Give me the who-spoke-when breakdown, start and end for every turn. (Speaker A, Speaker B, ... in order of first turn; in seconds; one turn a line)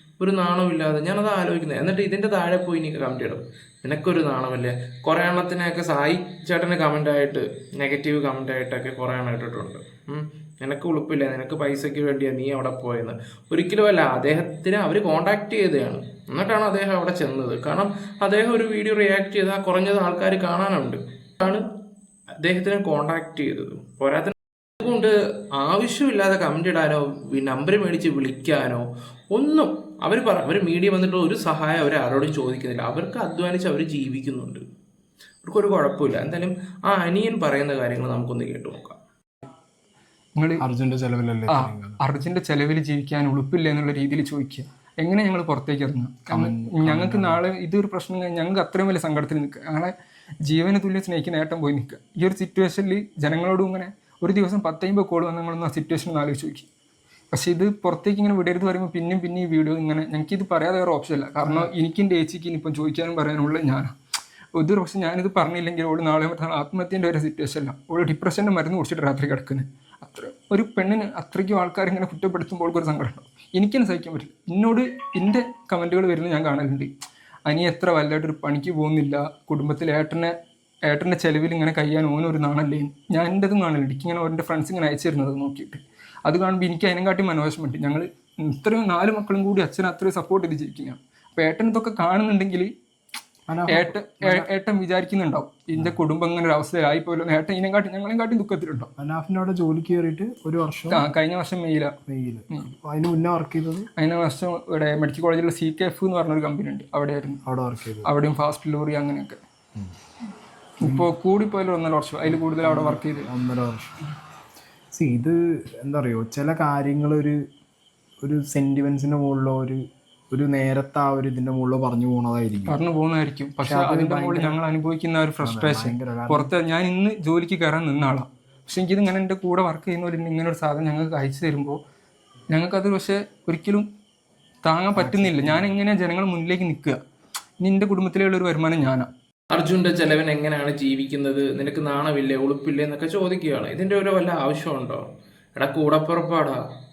Speaker A: 0.2-21.6
Speaker A: 22.4-34.6
Speaker A: 35.4-39.0
Speaker B: 40.4-40.6
Speaker C: 40.6-42.0
Speaker B: 41.5-49.9
Speaker C: 46.3-47.4
Speaker B: 50.4-56.7
Speaker B: 57.3-63.9
Speaker C: 61.4-61.7
Speaker B: 64.6-76.9
Speaker B: 77.5-80.3
Speaker B: 80.9-92.7
Speaker C: 93.5-94.5
Speaker B: 93.7-98.9
Speaker C: 99.0-101.0
Speaker B: 100.9-101.9
Speaker C: 102.1-103.9
Speaker B: 104.0-107.4
Speaker C: 107.5-108.1
Speaker B: 108.0-109.4
Speaker B: 110.8-113.3
Speaker C: 110.8-111.1
Speaker C: 112.3-113.9
Speaker C: 114.9-117.4
Speaker C: 118.2-122.8
Speaker B: 122.7-131.8
Speaker C: 123.6-124.6
Speaker C: 125.4-126.5
Speaker B: 132.5-133.9
Speaker B: 134.6-137.0
Speaker C: 134.9-135.7
Speaker B: 137.6-139.1
Speaker A: 139.5-145.1
Speaker A: 145.6-146.6